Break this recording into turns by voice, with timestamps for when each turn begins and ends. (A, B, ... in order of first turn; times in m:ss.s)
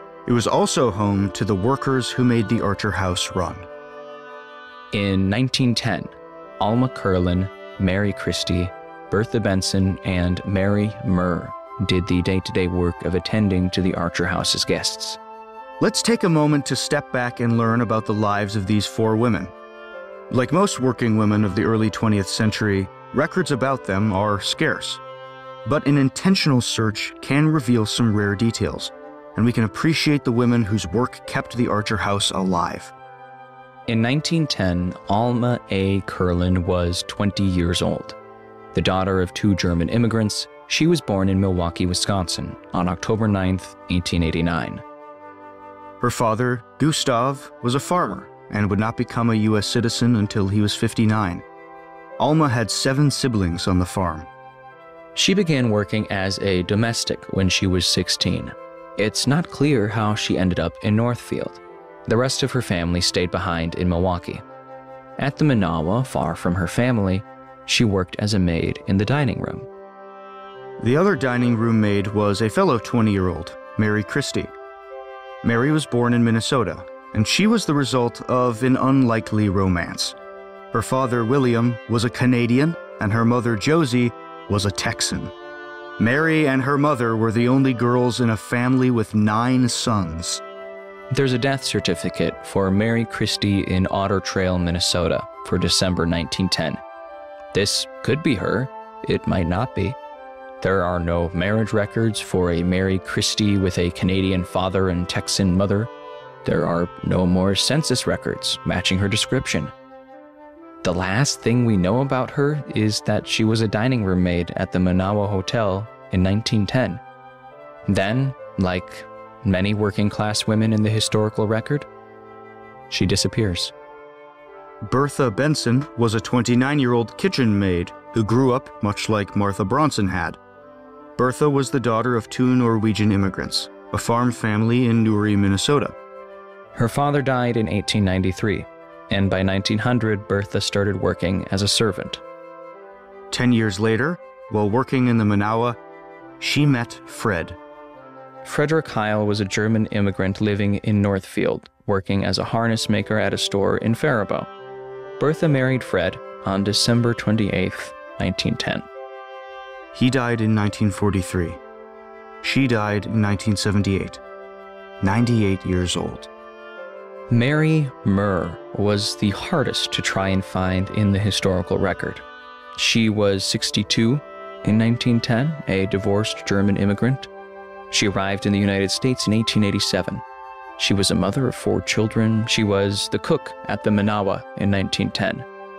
0:00.3-0:03.7 A
0:04.9-0:15.2 B
0:15.8-0:19.5 A
0:20.3-0:25.0 A
0:25.6-0:32.9 A
0:33.9-0:38.2 B
0:38.7-0:44.8 B
0:46.0-0:51.4 A
0:52.2-0:54.3 A
0:55.2-1:04.4 B
1:05.2-1:09.7 B
1:10.8-1:14.5 A
1:15.4-1:20.2 A
1:20.7-1:25.3 A
1:26.0-1:30.4 A
1:31.1-1:36.8 B
1:37.5-1:40.0 B
1:40.6-1:45.9 B
1:46.4-1:49.7 B
1:50.8-1:57.0 B
1:57.9-2:01.9 B
2:02.9-2:03.7 B
2:04.8-2:10.4 A
2:11.2-2:16.0 A
2:16.8-2:22.2 B
2:23.3-2:25.8 A
2:26.4-2:27.6 A
2:28.4-2:34.5 B
2:35.2-2:38.9 B
2:39.9-2:41.6 A
2:42.4-2:44.2 A
2:45.0-2:46.3 A
2:47.3-2:52.2 B
2:52.8-2:57.3 B
2:57.9-3:00.2 B
3:00.8-3:05.5 B